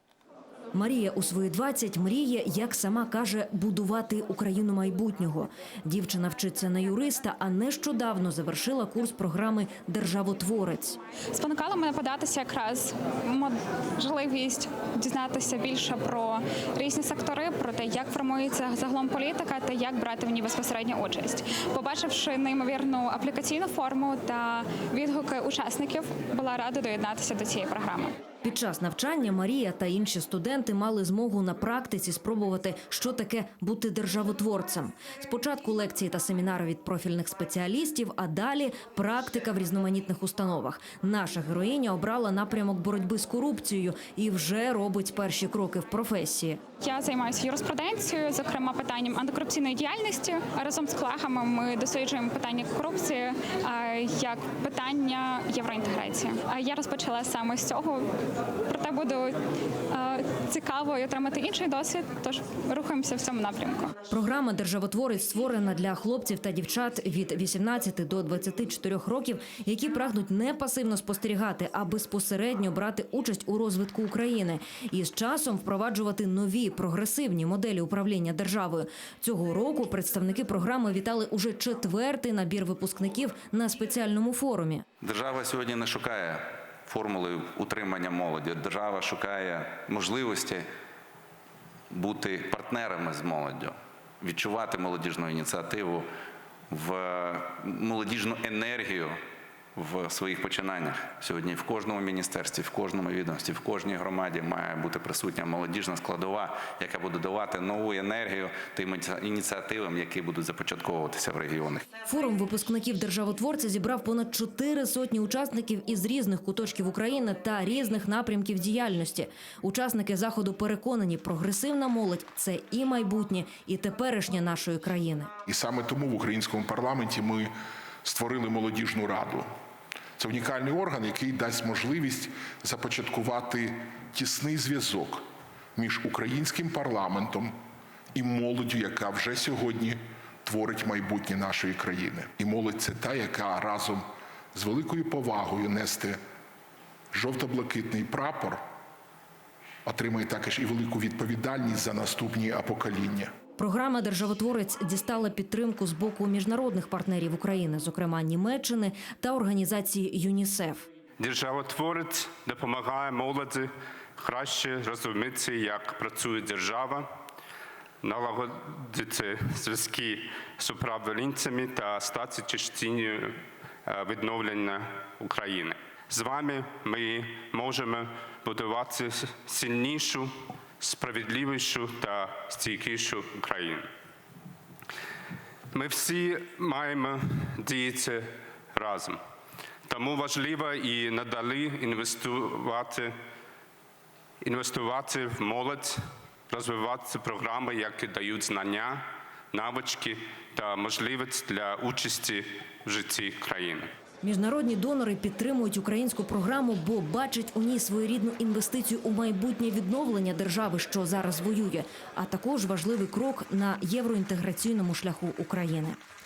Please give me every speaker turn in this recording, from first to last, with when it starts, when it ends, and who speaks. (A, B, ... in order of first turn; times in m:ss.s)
0:00.8-0:11.0 A
0:11.3-0:28.2 B
0:28.4-0:46.6 A
0:46.8-0:58.0 B
0:58.7-0:59.4 B
0:59.9-1:03.9 B
1:04.1-1:24.8 A
1:25.0-1:30.7 C
1:31.9-1:36.1 C
1:36.7-1:39.2 C
1:39.8-1:51.9 C
1:52.1-2:05.3 A
2:05.5-2:07.5 D
2:08.0-2:09.5 D
2:10.2-2:15.2 D
2:15.8-2:17.5 D
2:18.2-2:24.0 D
2:24.6-2:26.2 D
2:27.1-2:28.6 D
2:29.8-2:33.3 D
2:33.6-2:40.9 A
2:41.2-2:47.1 E
2:48.0-2:53.4 E
2:53.9-3:00.3 E
3:00.8-3:03.8 E
3:05.7-3:09.2 E
3:09.9-3:13.1 E
3:14.4-3:16.0 E
3:16.5-3:23.9 E
3:24.2-3:36.0 A